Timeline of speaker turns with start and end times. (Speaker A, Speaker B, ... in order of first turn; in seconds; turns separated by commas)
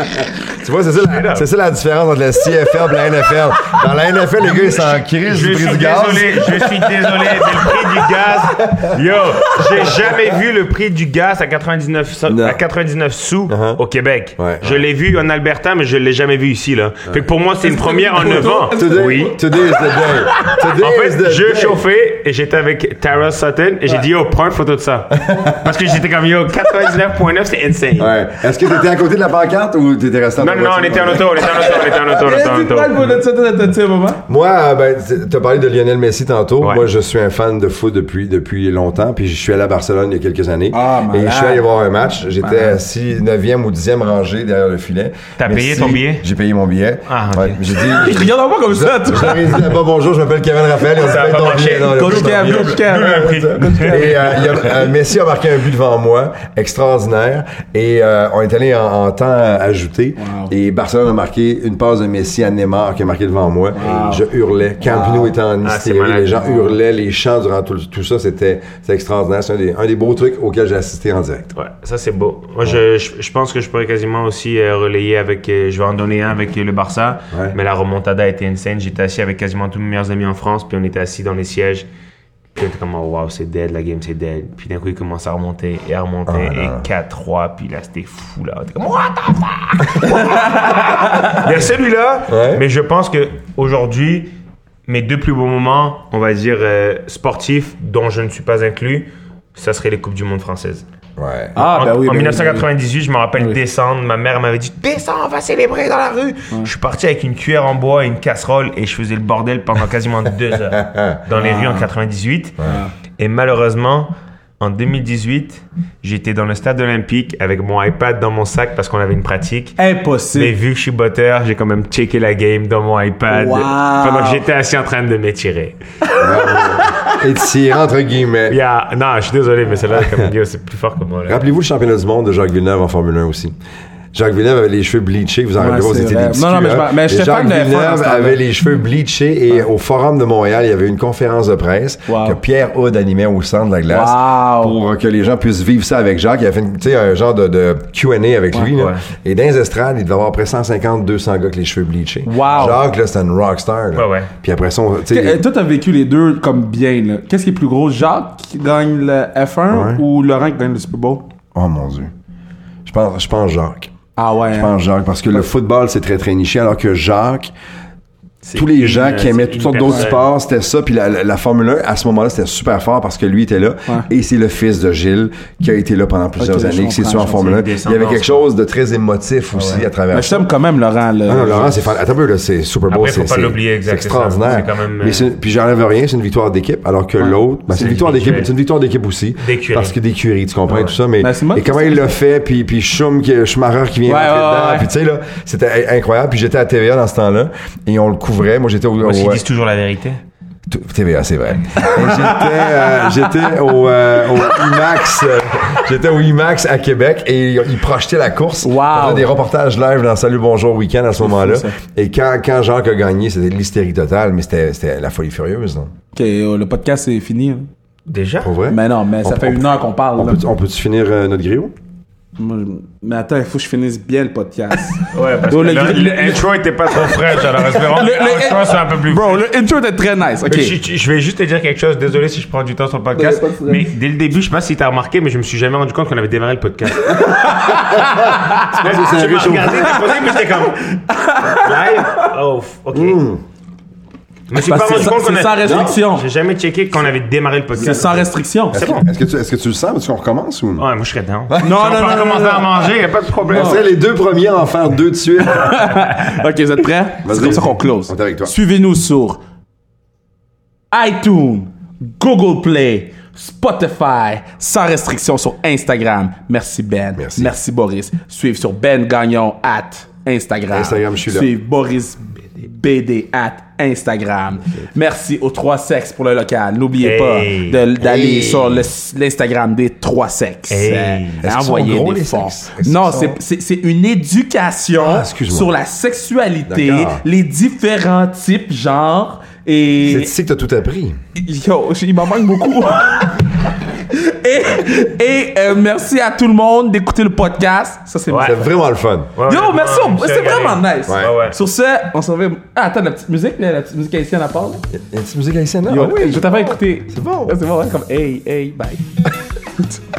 Speaker A: 0.6-10.4, Speaker B: 1.0-1.4, Speaker B: 4.4-19.4, Speaker A: 12.3-12.6, Speaker A: 13.5-13.8, Speaker A: 14.4-14.8, Speaker C: 17.6-20.5, Speaker A: 18.5-21.8, Speaker B: 20.4-28.1, Speaker A: 25.2-25.8, Speaker A: 28.0-31.8, Speaker B: 30.4-33.2, Speaker C: 31.4-34.2, Speaker A: 34.3-71.5, Speaker C: 40.7-41.6, Speaker C: 42.4-42.8, Speaker B: 45.4-46.2, Speaker B: 47.1-47.6, Speaker C: 47.8-49.6, Speaker B: 51.0-54.8, Speaker C: 51.8-54.7, Speaker C: 60.2-60.5, Speaker C: 63.7-64.3, Speaker C: 64.8-65.3, Speaker B: 65.6-66.5, Speaker C: 66.4-66.8, Speaker B: 71.5-81.9, Speaker B: 82.5-94.3, Speaker A: 86.3-86.8, Speaker C: 90.1-91.4, Speaker A: 92.3-92.6, Speaker B: 94.9-100.8, Speaker A: 101.2-101.6, Speaker C: 101.5-102.7, Speaker B: 101.5-112.6, Speaker A: 110.7-111.2, Speaker C: 111.3-111.9, Speaker C: 112.6-112.9, Speaker B: 113.1-119.8, Speaker C: 119.8-120.5, Speaker B: 120.3-125.8, Speaker C: 123.3-124.5, Speaker C: 126.1-126.9, Speaker A: 126.2-128.6, Speaker B: 128.5-131.4, Speaker A: 129.9-130.3, Speaker A: 131.3-133.5, Speaker A: 134.1-155.4, Speaker C: 135.6-138.4, Speaker C: 142.1-142.4, Speaker C: 143.9-144.8, Speaker B: 148.7-149.0, Speaker C: 152.2-152.8, Speaker B: 153.9-154.3, Speaker C: 155.1-161.3, Speaker A: 159.7-160.0, Speaker A: 161.5-162.1, Speaker A: 162.8-163.9, Speaker C: 164.2-164.7, Speaker A: 164.5-167.5, Speaker B: 168.4-170.2, Speaker A: 168.5-180.5, Speaker C: 176.4-177.6, Speaker B: 177.3-178.5, Speaker B: 179.5-179.9, Speaker C: 180.1-181.9, Speaker A: 181.3-199.4, Speaker B: 182.9-185.3, Speaker B: 187.7-188.5, Speaker B: 189.4-189.9, Speaker B: 190.7-190.9, Speaker C: 191.2-192.1, Speaker C: 194.1-194.9, Speaker B: 199.0-200.2, Speaker A: 200.7-215.9, Speaker C: 202.0-202.9, Speaker C: 208.6-209.3, Speaker C: 211.2-211.7, Speaker C: 216.1-217.7, Speaker B: 218.1-218.5, Speaker A: 218.4-221.7, Speaker C: 218.7-220.4, Speaker C: 222.4-226.4, Speaker B: 225.1-229.5, Speaker C: 227.1-230.7, Speaker B: 230.4-237.9, Speaker C: 233.1-233.9, Speaker C: 237.1-238.8, Speaker A: 237.8-240.0, Speaker B: 238.5-243.2, Speaker C: 239.9-240.4, Speaker C: 240.9-242.3, Speaker A: 242.9-243.4, Speaker B: 244.5-248.2, Speaker C: 244.5-246.3, Speaker A: 245.6-245.9, Speaker C: 247.8-249.0, Speaker A: 248.7-250.8, Speaker B: 250.8-253.8, Speaker A: 251.5-251.8, Speaker C: 251.6-252.8, Speaker A: 253.4-256.0, Speaker C: 253.5-253.8, Speaker C: 255.4-259.4, Speaker A: 257.2-258.5, Speaker C: 260.9-290.3, Speaker A: 267.2-267.5, Speaker A: 270.7-271.5, Speaker B: 277.0-277.8, Speaker A: 278.0-278.9, Speaker B: 280.7-281.5, Speaker A: 281.4-283.4, Speaker A: 285.0-285.7, Speaker A: 286.7-287.2, Speaker A: 290.0-291.2, Speaker C: 291.4-298.7, Speaker B: 298.3-298.7, Speaker A: 298.4-299.3, Speaker B: 299.4-301.6, Speaker C: 299.5-304.9, Speaker A: 301.1-301.4, Speaker A: 304.9-307.6, Speaker C: 305.9-309.2